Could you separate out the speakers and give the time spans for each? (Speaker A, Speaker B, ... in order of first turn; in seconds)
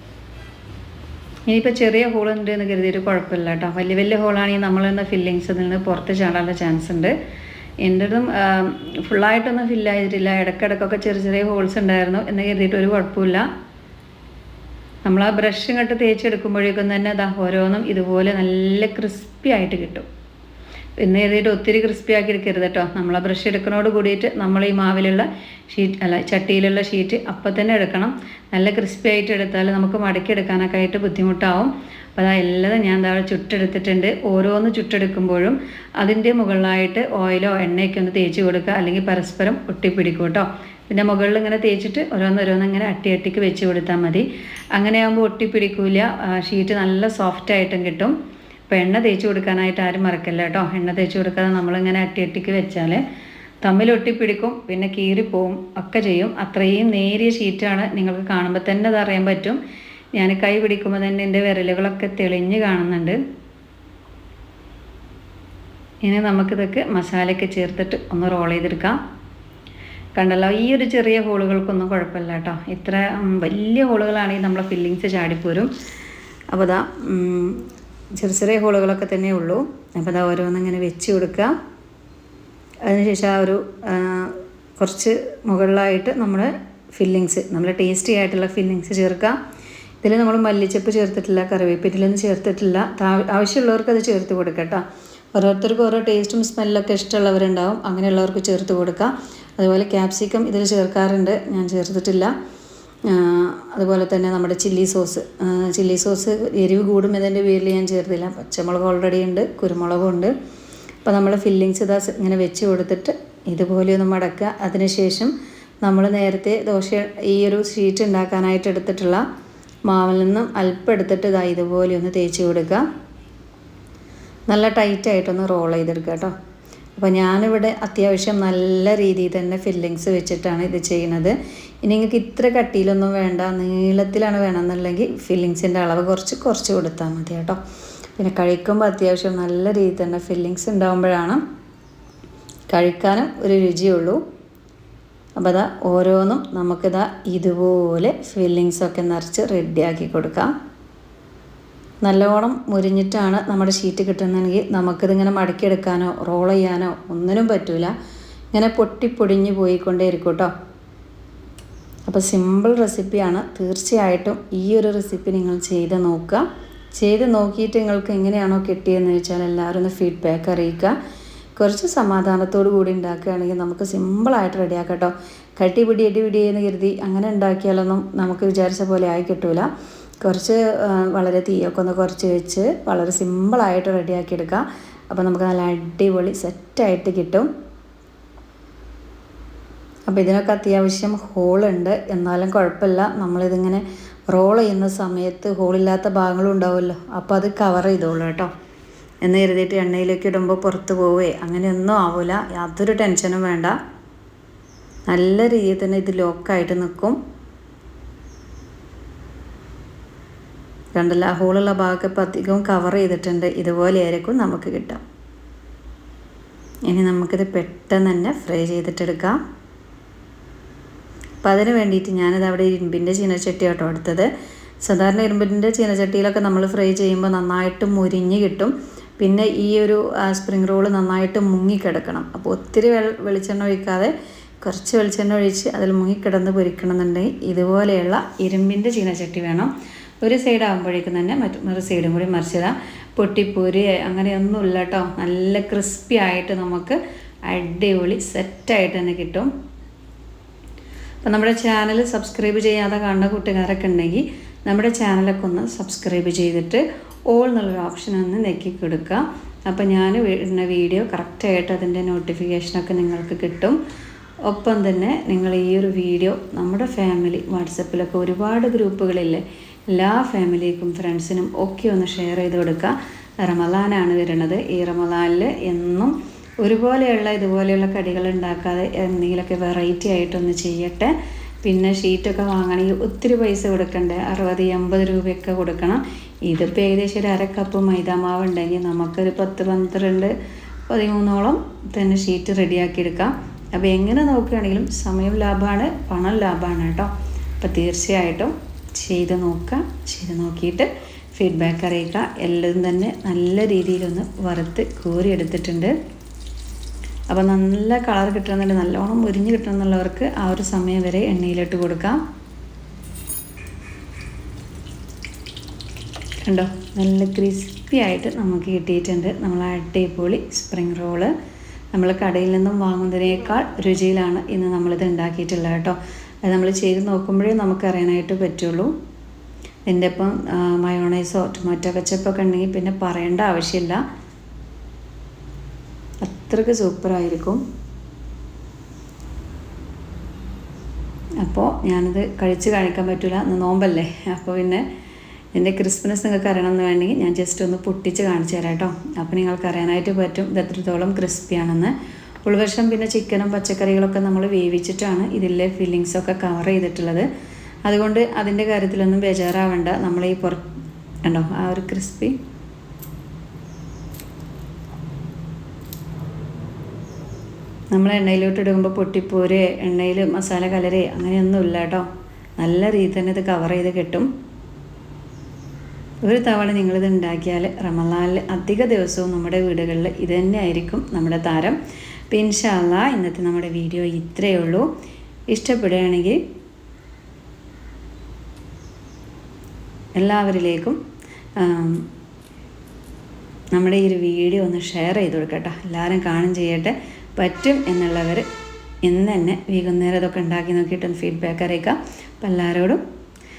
Speaker A: 1.5-7.1, 7.8-13.4, 15.1-20.1, 21.0-48.1, 48.7-53.0, 53.6-59.6, 60.1-63.2, 66.0-69.0, 70.2-75.7, 76.5-77.6, 78.2-81.5, 82.8-89.3, 90.0-94.8, 95.3-102.3, 103.0-110.3, 111.0-115.3, 115.8-119.2, 119.9-122.8, 124.5-126.3, 127.0-137.6, 138.2-141.4, 142.7-144.2, 145.4-150.5, 152.0-157.9, 158.5-160.5, 162.1-166.4, 166.9-170.9, 171.6-179.7, 180.2-187.5, 190.1-198.5, 199.2-203.7, 205.1-207.2, 210.9-215.0, 216.9-219.3, 221.4-224.3, 224.8-239.7, 240.2-249.5, 251.2-263.8, 264.5-281.1, 281.6-290.3, 290.9-305.9, 307.3-312.2, 316.4-321.3, 321.9-328.9, 329.9-334.0, 336.2-337.6, 341.4-344.8, 345.5-351.9, 352.4-357.3, 357.9-360.6, 361.2-362.4, 367.9-372.1, 372.6-374.3, 376.2-381.8, 382.3-384.9, 385.5-386.4, 390.2-391.0, 391.6-392.1, 393.7-398.4, 399.0-403.0